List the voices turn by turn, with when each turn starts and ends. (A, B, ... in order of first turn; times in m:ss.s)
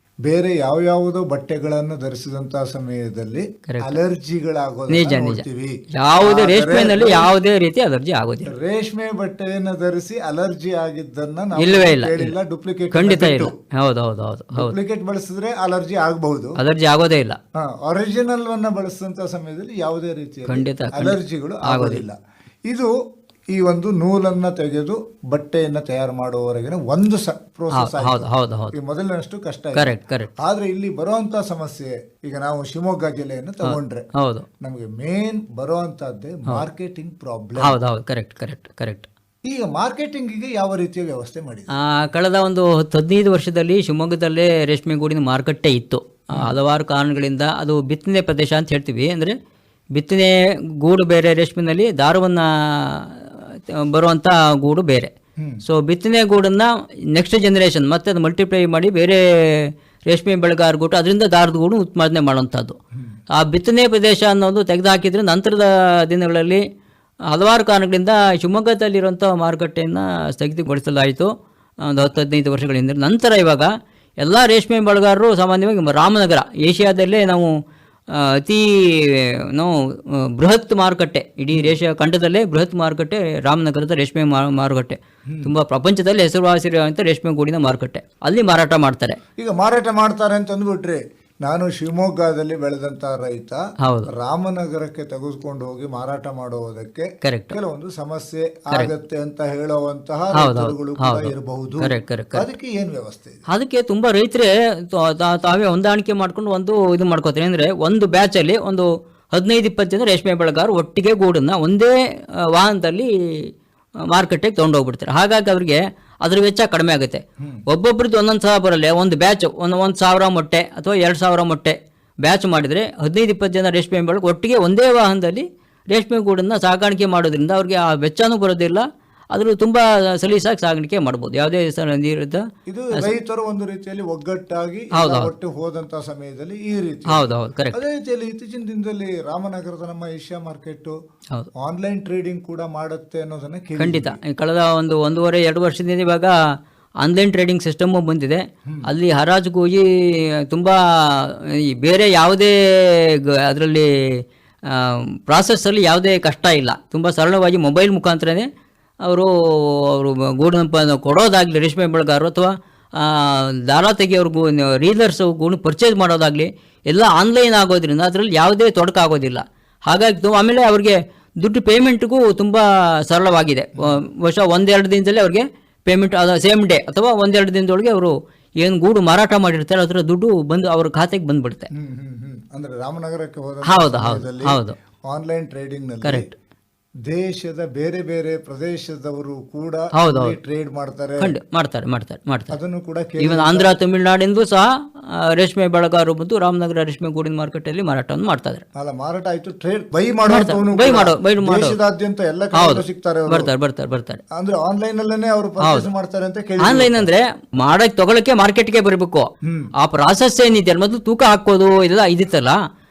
0:00.2-0:07.3 A
0:03.7-0:04.0 B
0:04.9-0:08.5 B
0:08.5-0:13.5 A
0:11.6-0:12.4 B
0:12.9-0:14.8 B
0:14.5-0:16.6 A
0:16.6-0:17.4 B
0:17.6-0:22.1 A
0:20.4-0:22.0 B
0:23.6-0:34.0 A
0:27.7-0:28.8 B
0:29.7-0:30.3 B
0:33.6-0:34.4 B
0:34.6-0:37.8 A
0:37.6-0:39.1 B
0:39.4-0:41.8 A
0:41.7-0:49.3 B
0:49.9-0:55.1 B
0:55.6-1:02.8 B
1:03.3-1:06.6 B
1:07.3-1:13.7 B
1:14.2-1:17.5 B
1:18.1-1:29.2 B
1:29.4-1:33.6 A
1:33.8-1:34.1 B
1:34.2-1:43.4 A
1:37.2-1:37.6 B
1:40.3-1:42.4 B
1:43.5-1:53.5 B
1:54.1-2:13.1 B
2:12.7-2:20.9 A
2:14.9-2:15.3 B
2:17.1-2:17.8 B
2:21.6-2:24.2 A
2:23.8-2:26.3 B
2:27.0-2:38.5 B
2:39.0-3:01.7 B
3:01.7-3:06.3 A
3:03.6-3:04.8 B
3:06.0-3:06.3 B
3:07.1-3:11.3 A
3:10.0-3:10.4 B
3:11.2-3:12.6 B
3:12.5-3:13.7 A
3:13.2-3:18.6 B
3:18.8-3:23.5 A
3:20.3-3:21.8 B
3:22.5-3:24.2 B
3:24.4-3:27.1 A
3:25.6-3:25.9 B
3:26.6-3:29.3 B
3:29.8-3:32.6 B